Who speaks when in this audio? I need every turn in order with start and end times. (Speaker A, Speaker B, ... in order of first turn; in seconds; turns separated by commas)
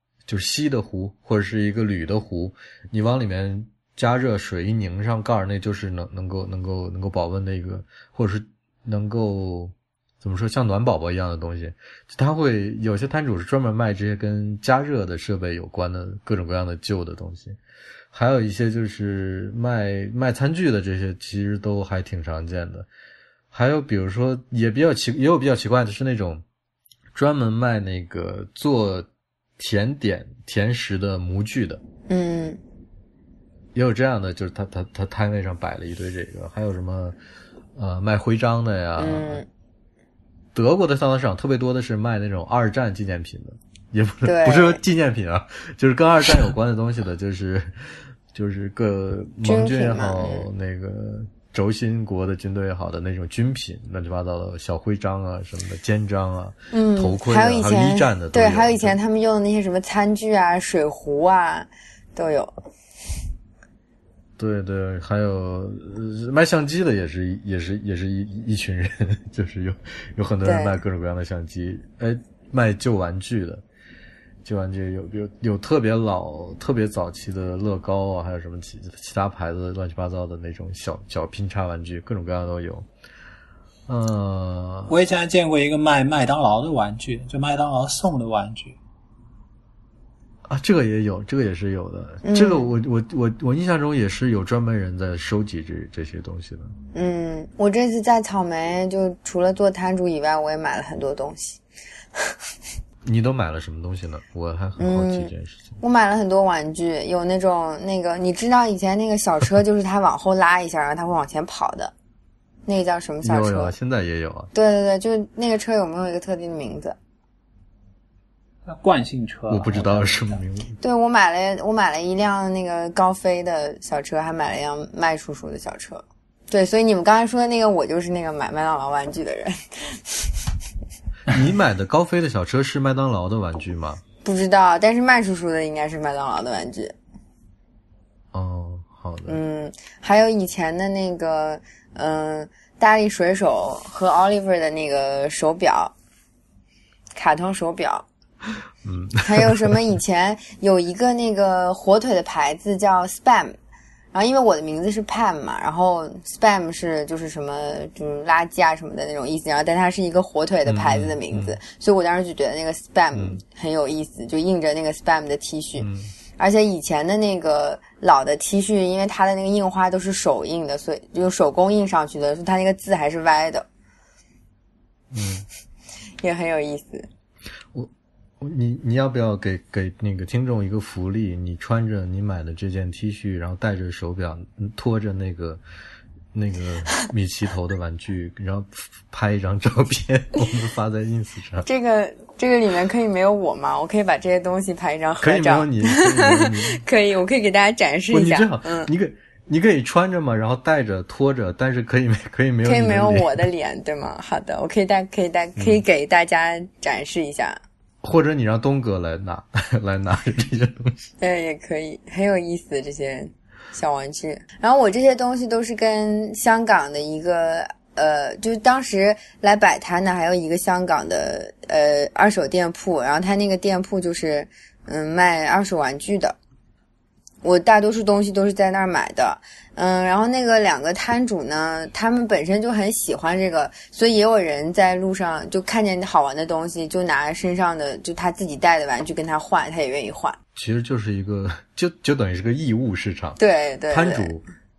Speaker A: 0.3-17.6, Speaker A: 18.1-22.9, Speaker A: 23.5-26.4, Speaker A: 27.1-29.1, Speaker A: 29.6-31.8, Speaker B: 32.1-32.6, Speaker A: 33.8-37.2, Speaker A: 37.8-39.4, Speaker B: 39.0-39.5, Speaker A: 40.5-59.0, Speaker B: 44.2-44.8, Speaker B: 49.5-50.5, Speaker B: 56.7-62.5, Speaker A: 64.4-73.6, Speaker B: 70.4-70.8, Speaker A: 74.5-82.9, Speaker A: 83.9-84.9, Speaker C: 84.9-88.8, Speaker A: 90.5-96.7, Speaker B: 92.2-92.7, Speaker B: 96.9-101.6, Speaker A: 103.0-105.7, Speaker B: 104.8-111.9, Speaker B: 112.7-113.7, Speaker A: 113.2-114.5, Speaker B: 114.5-117.0, Speaker C: 118.7-120.4, Speaker A: 119.5-120.8, Speaker B: 120.8-130.4, Speaker A: 131.3-134.0, Speaker B: 134.2-136.9, Speaker A: 138.3-139.4, Speaker B: 139.3-145.9, Speaker B: 147.2-148.0, Speaker A: 148.8-149.8, Speaker B: 149.2-153.6, Speaker B: 154.1-165.9, Speaker A: 160.7-161.6, Speaker A: 163.1-163.4, Speaker A: 165.8-166.1, Speaker B: 166.4-173.7, Speaker A: 175.1-175.4, Speaker B: 176.2-177.1, Speaker A: 177.7-185.6, Speaker A: 186.3-191.7, Speaker B: 191.7-198.9, Speaker A: 195.2-196.8, Speaker A: 198.1-203.4, Speaker B: 202.6-207.6, Speaker A: 205.6-205.8, Speaker A: 208.0-211.0, Speaker B: 211.2-226.4, Speaker B: 227.4-240.4, Speaker A: 240.6-243.4, Speaker B: 243.4-244.3, Speaker A: 243.9-244.4